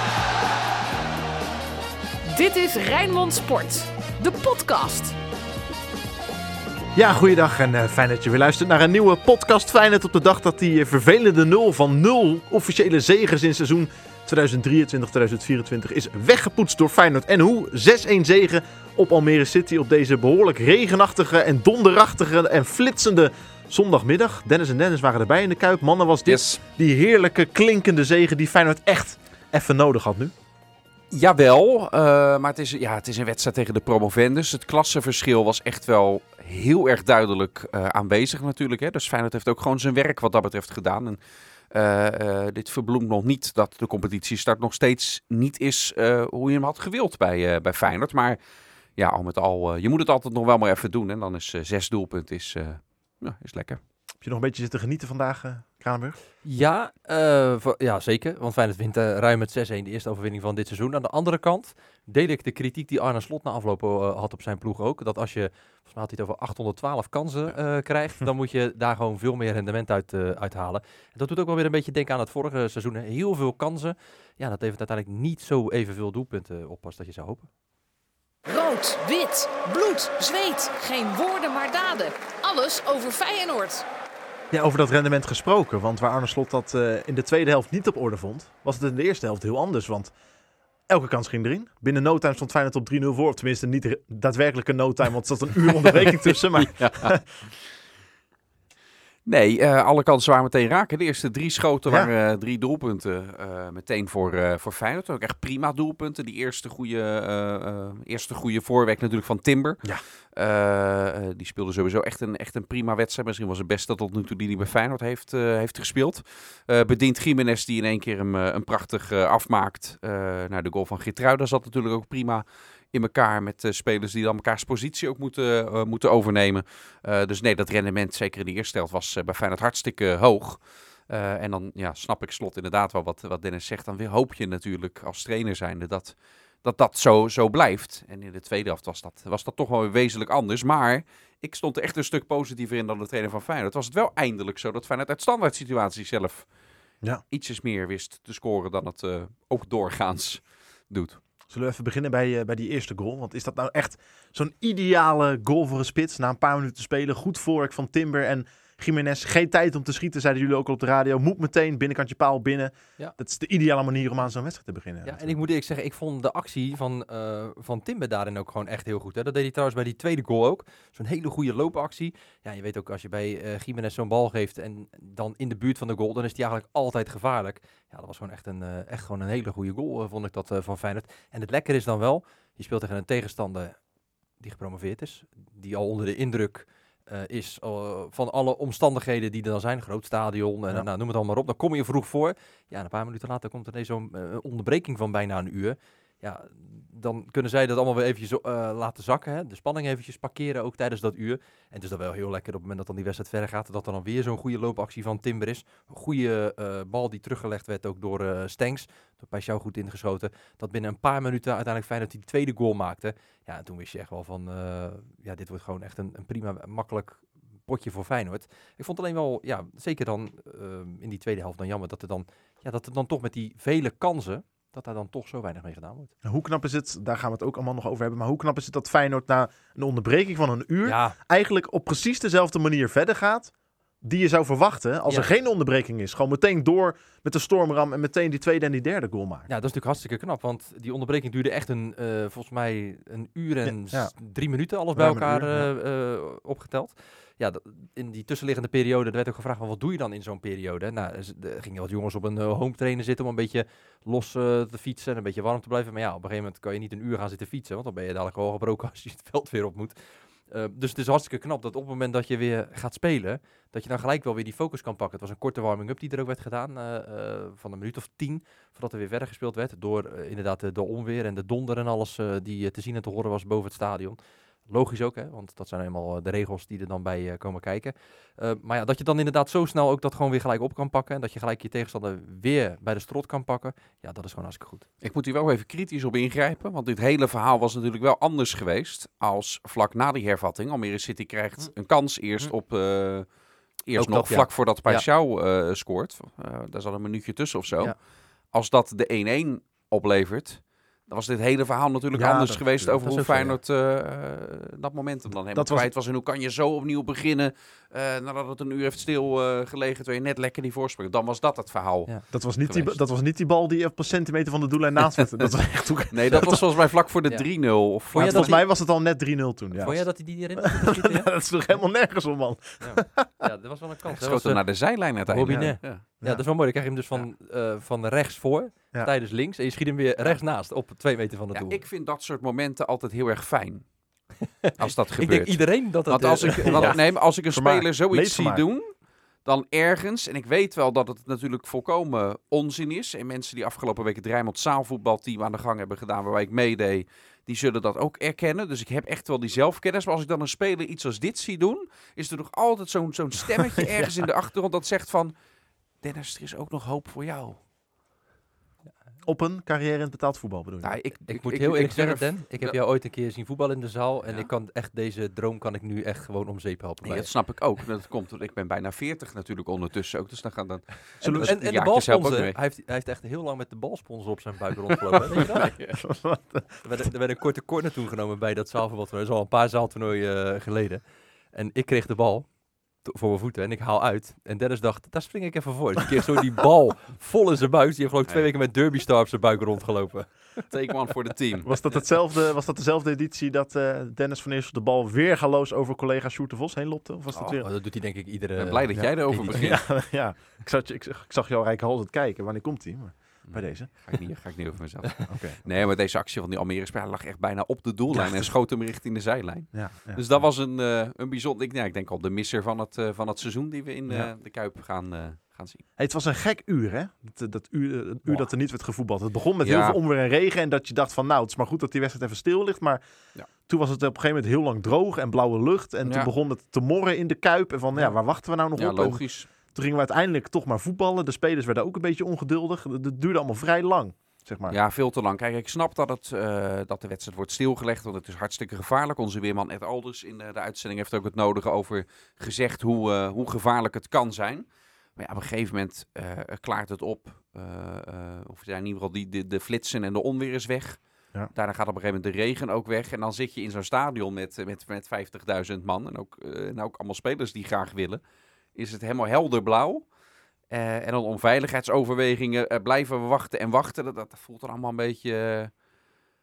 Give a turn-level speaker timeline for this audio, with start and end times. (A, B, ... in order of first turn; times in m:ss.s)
0:02.2-0:05.1 A
0:06.9-0:30.3 B
0:26.2-0:26.6 C
0:31.1-0:41.2 C
0:41.7-0:48.4 C
0:49.0-0:53.8 C
0:54.2-0:56.2 B
0:56.4-1:17.5 D
1:18.4-1:23.8 A
1:24.5-1:30.1 B
1:30.9-1:37.2 B
1:36.6-1:37.1 C
1:39.2-2:26.6 C
2:27.3-2:31.2 C
2:31.5-2:45.4 B
2:45.0-3:03.8 D
3:04.4-3:46.1 D
3:46.2-3:59.5 B
3:50.8-3:51.2 D
3:59.5-4:44.9 D
4:03.6-4:04.1 B
4:04.9-4:05.7 B
4:45.0-5:13.0 C
4:53.9-4:55.1 D
5:02.1-5:03.0 B
5:03.0-5:03.6 D
5:05.5-5:05.9 B
5:12.3-5:16.6 B
5:16.1-5:18.6 C
5:16.3-5:18.6 D
5:18.1-5:23.4 B
5:19.7-5:21.3 D
5:22.8-5:31.8 D
5:24.1-5:26.0 C
5:25.4-5:26.5 B
5:31.5-5:55.3 C
5:34.6-5:37.0 D
5:36.6-5:38.6 B
5:53.7-5:54.3 B
5:56.0-5:57.6 C
5:59.2-6:00.9 B
6:00.8-6:02.8 C
6:01.3-6:07.3 D
6:07.0-6:12.6 C
6:11.2-6:16.1 D
6:11.2-6:11.5 B
6:15.6-6:16.0 C
6:15.9-6:16.7 B
6:16.8-6:30.7 D
6:30.6-6:32.0 C
6:31.6-6:37.6 B
6:37.3-6:39.9 C
6:37.6-6:40.0 D
6:39.0-6:43.9 B
6:43.4-6:55.8 C
6:45.3-6:45.6 B
6:48.1-6:48.5 B
6:49.7-6:50.4 B
6:56.0-7:14.8 B
6:59.6-7:00.0 C
7:06.0-7:06.3 C
7:08.0-7:09.5 C
7:14.7-7:38.2 C
7:38.7-7:40.1 C
7:40.7-7:45.8 C